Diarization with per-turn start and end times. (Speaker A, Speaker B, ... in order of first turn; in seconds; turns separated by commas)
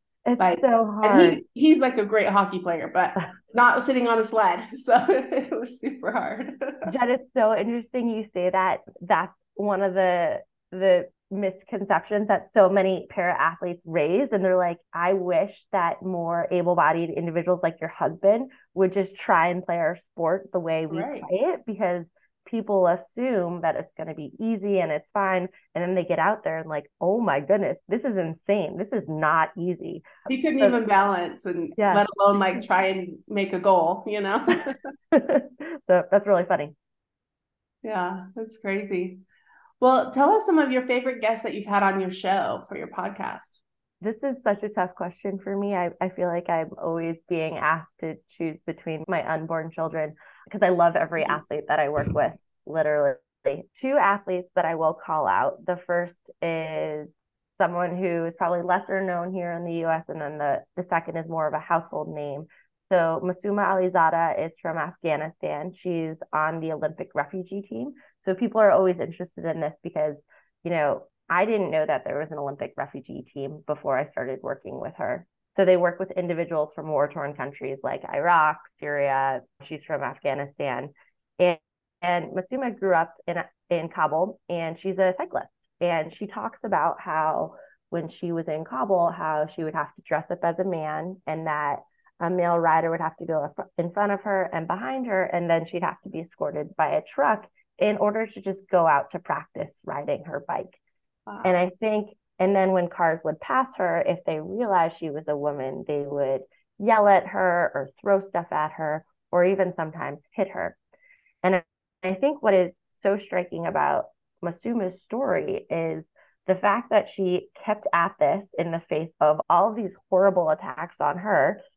Speaker A: 0.3-1.4, Speaker B: 0.4-6.9, Speaker A: 6.9-30.1, Speaker B: 20.9-21.3, Speaker B: 30.3-34.8, Speaker A: 31.8-32.0, Speaker A: 35.1-36.7, Speaker B: 37.8-39.2, Speaker B: 39.8-43.6, Speaker A: 44.0-100.8, Speaker B: 101.3-101.6, Speaker A: 101.4-110.8, Speaker A: 111.4-121.6